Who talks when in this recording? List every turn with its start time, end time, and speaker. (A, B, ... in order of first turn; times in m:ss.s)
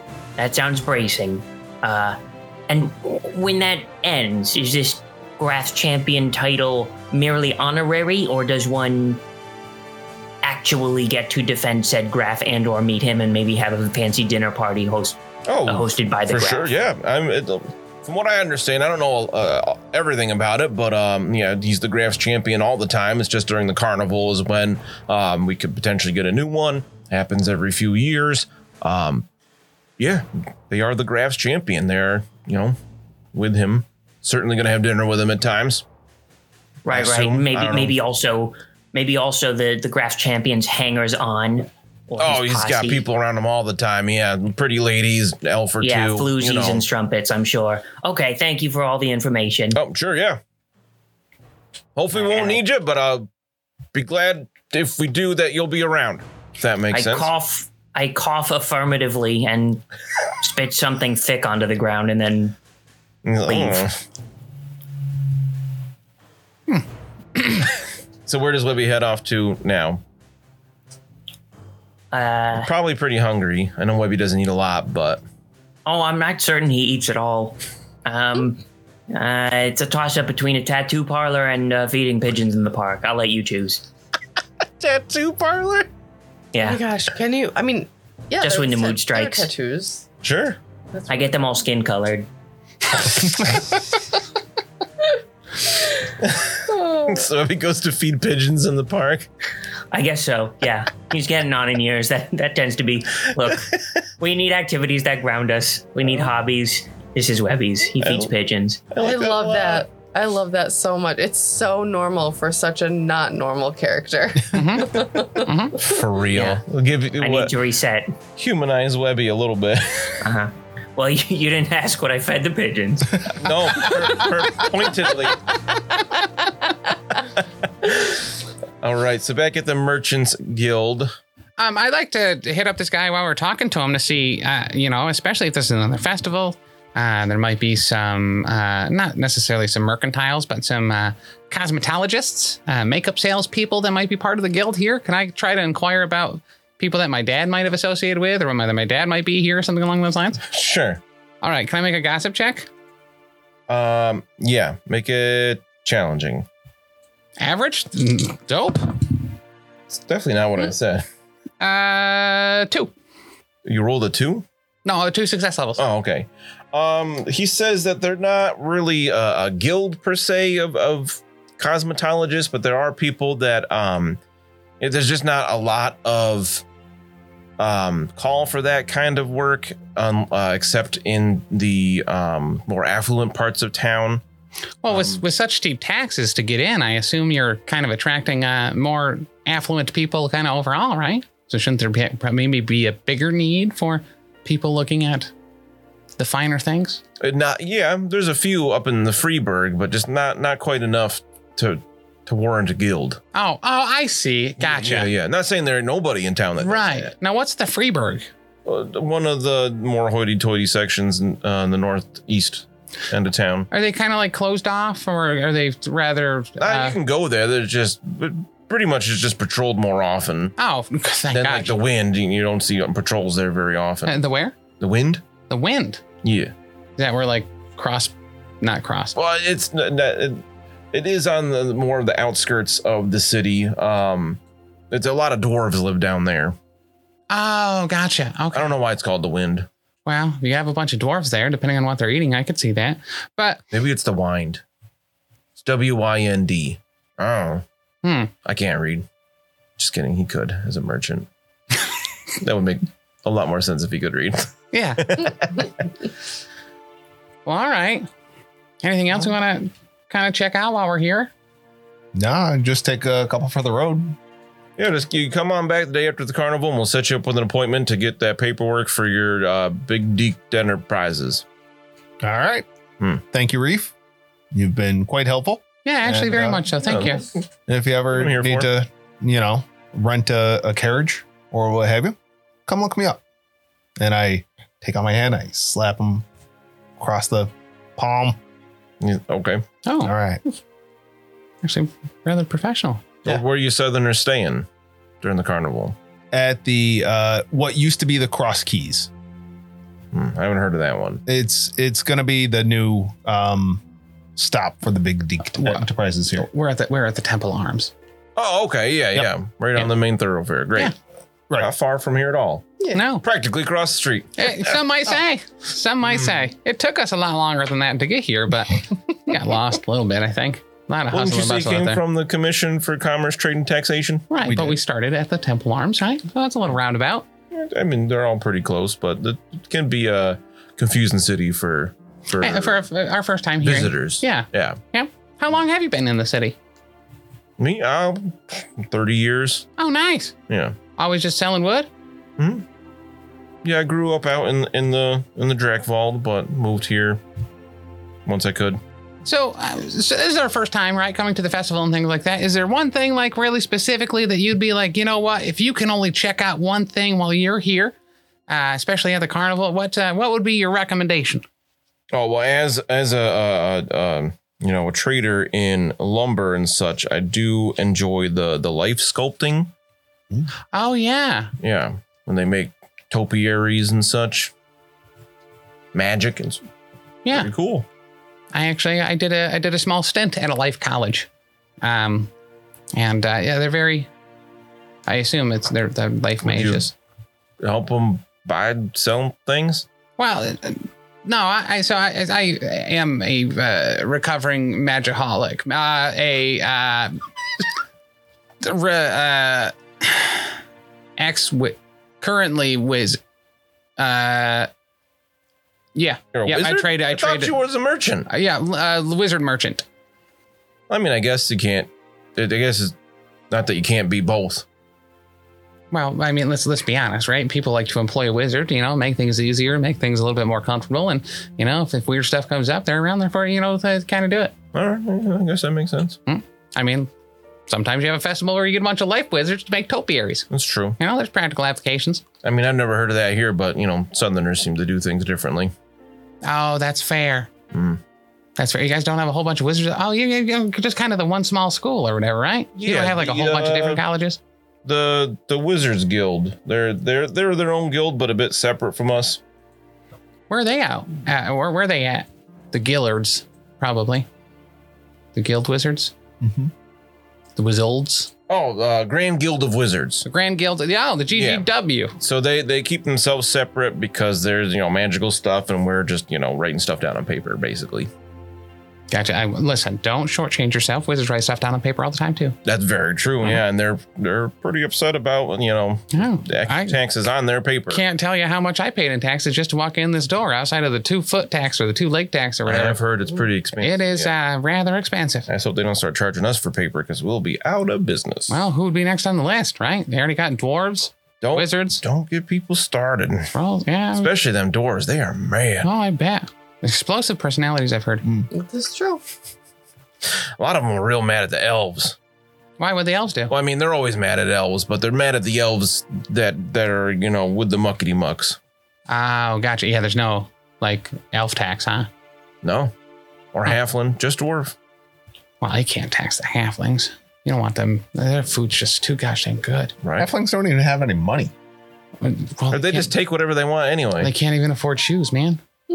0:00.4-0:02.2 A
0:02.7-0:09.2 A
0:10.4-0:16.7 A
0:15.5-0:29.3 B
0:30.0-0:32.8 B
0:33.3-0:35.8 B
0:36.9-0:38.0 B
0:36.9-0:43.0 A
0:42.2-0:46.9 B
0:45.8-0:49.8 A
0:49.7-0:50.4 B
0:52.0-0:53.3 B
0:52.1-0:52.6 A
0:53.9-0:57.3 B
0:56.9-1:02.6 A
1:03.2-1:04.0 B
1:03.5-1:03.9 A
1:06.7-1:07.7 C
1:08.3-1:10.0 B
1:12.1-1:12.7 A
1:12.5-1:15.2 B
1:15.9-1:23.9 A
1:24.8-1:25.9 B
1:26.5-1:26.8 A
1:26.6-1:30.0 D
1:28.4-1:29.5 A
1:30.2-1:30.6 B
1:30.9-1:31.4 D
1:31.1-1:32.3 A
1:36.2-1:39.3 B
1:36.7-1:37.2 D
1:39.9-1:48.8 A
1:48.0-1:48.3 B
1:48.9-1:49.9 B
1:49.0-1:56.0 D
1:54.5-1:55.9 C
1:55.8-1:57.6 B
1:56.3-1:56.6 A
1:57.2-1:58.1 A
1:58.4-2:00.3 B
2:00.2-2:03.4 A
2:03.4-2:05.4 B
2:07.3-2:08.3 B
2:08.8-2:11.1 B
2:11.6-2:30.4 C
2:30.5-2:31.0 B
2:31.4-2:32.7 C
2:33.7-2:36.5 B
2:37.4-2:39.2 C
2:39.9-2:41.0 B
2:41.6-2:42.9 C
2:43.6-2:44.5 B
2:44.8-2:45.8 C
2:45.8-2:54.2 B
2:54.8-2:56.6 B
2:57.6-3:04.2 B
3:04.8-3:15.3 C
3:04.9-3:05.2 B
3:16.2-3:17.0 C
3:17.2-3:23.2 B
3:23.3-3:25.1 C
3:24.6-3:27.1 B
3:26.6-3:28.3 C
3:28.6-3:33.7 B
3:33.7-3:37.0 C
3:36.6-3:40.6 B
3:40.6-3:41.8 C
3:41.3-3:44.2 B
3:44.1-3:44.6 C
3:44.8-3:45.2 B
3:45.5-3:46.0 C
3:46.2-3:46.5 B
3:47.0-3:49.2 C
3:49.2-3:54.4 B
3:54.9-3:56.6 B
3:57.3-3:58.7 C
3:58.5-3:59.7 B
4:00.0-4:03.6 C
4:03.7-4:04.6 B
4:05.6-4:07.6 B
4:08.0-4:08.3 C
4:08.4-4:09.1 B
4:09.8-4:11.3 B
4:12.4-4:15.9 B
4:14.7-4:15.1 C
4:17.4-4:18.1 C
4:18.8-4:21.3 C
4:22.2-4:24.2 E
4:24.8-4:31.4 B
4:32.2-4:32.7 E
4:33.2-4:33.9 E
4:34.5-4:36.7 E
4:35.8-4:37.2 C
4:36.8-4:37.3 B
4:37.7-4:42.2 E
4:38.1-4:38.7 B
4:42.7-4:43.2 E
4:44.0-4:46.2 E
4:47.0-4:48.4 E
4:49.0-4:49.6 B
4:49.9-4:50.1 C
4:50.0-4:50.4 E
4:51.6-4:53.2 C
4:53.2-4:54.7 B
4:55.2-4:56.0 B
4:56.3-4:59.1 E
5:00.1-5:01.2 B
5:01.3-5:03.8 E
5:04.4-5:06.5 E
5:05.6-5:05.8 C
5:06.4-5:07.9 C
5:08.4-5:10.9 B
5:11.6-5:14.8 B
5:12.9-5:13.2 C
5:14.4-5:22.0 C
5:21.1-5:24.3 B
5:24.3-5:27.3 C
5:24.4-5:24.8 E
5:27.5-5:32.8 B
5:32.4-5:36.6 C
5:33.6-5:34.8 B
5:37.6-5:39.7 B
5:39.8-5:40.4 C
5:40.5-5:40.8 B
5:40.9-5:41.9 C
5:42.4-5:42.6 B
5:43.6-5:47.2 B
5:48.3-5:48.8 B
5:49.2-5:57.9 C
5:58.5-6:01.4 C
6:02.1-6:09.7 B
6:10.7-6:11.5 C
6:11.6-6:14.5 B
6:15.9-6:16.6 B
6:17.3-6:17.9 B
6:18.5-6:21.3 C
6:21.8-6:22.3 C
6:22.9-6:24.1 C
6:25.1-6:26.9 C
6:26.4-6:26.8 B
6:27.6-6:29.9 B
6:30.2-6:37.2 C
6:38.6-6:40.6 C
6:41.2-6:43.2 C
6:44.0-6:44.7 C
6:46.0-6:47.6 C
6:46.3-6:48.3 B
6:48.3-6:49.8 C
6:50.9-6:53.0 B
6:53.5-6:54.6 B
6:55.9-7:04.5 C
7:04.7-7:06.2 B
7:06.3-7:07.1 C
7:07.7-7:10.5 C
7:10.5-7:11.0 B
7:11.0-7:12.2 C
7:12.4-7:15.7 B
7:16.4-7:17.5 C
7:17.7-7:18.0 B
7:18.6-7:24.4 C
7:22.8-7:24.0 B
7:24.8-7:29.4 B
7:30.5-7:34.3 C
7:35.4-7:36.1 C
7:36.4-7:36.7 E
7:37.6-7:38.3 C
7:38.5-7:40.2 B
7:40.2-7:42.2 C
7:41.3-7:41.7 B
7:42.2-7:48.1 B
7:49.1-7:52.6 C
7:52.6-7:58.0 B
7:56.1-7:57.0 C
7:57.9-8:03.0 C
8:02.6-8:04.3 B
8:03.8-8:05.5 C
8:05.5-8:08.6 B
8:08.5-8:12.0 C
8:11.4-8:13.5 B
8:13.5-8:14.3 C
8:14.1-8:15.9 B
8:15.8-8:18.2 C
8:18.5-8:19.2 D
8:20.6-8:22.2 B
8:22.8-8:23.5 C
8:23.5-8:28.6 B
8:29.1-8:32.1 C
8:32.6-8:32.9 B
8:33.5-8:34.8 B
8:35.6-8:40.0 C
8:40.0-8:40.3 B
8:40.2-8:41.5 E
8:42.2-8:43.1 C
8:42.7-8:44.3 B
8:44.2-8:45.6 C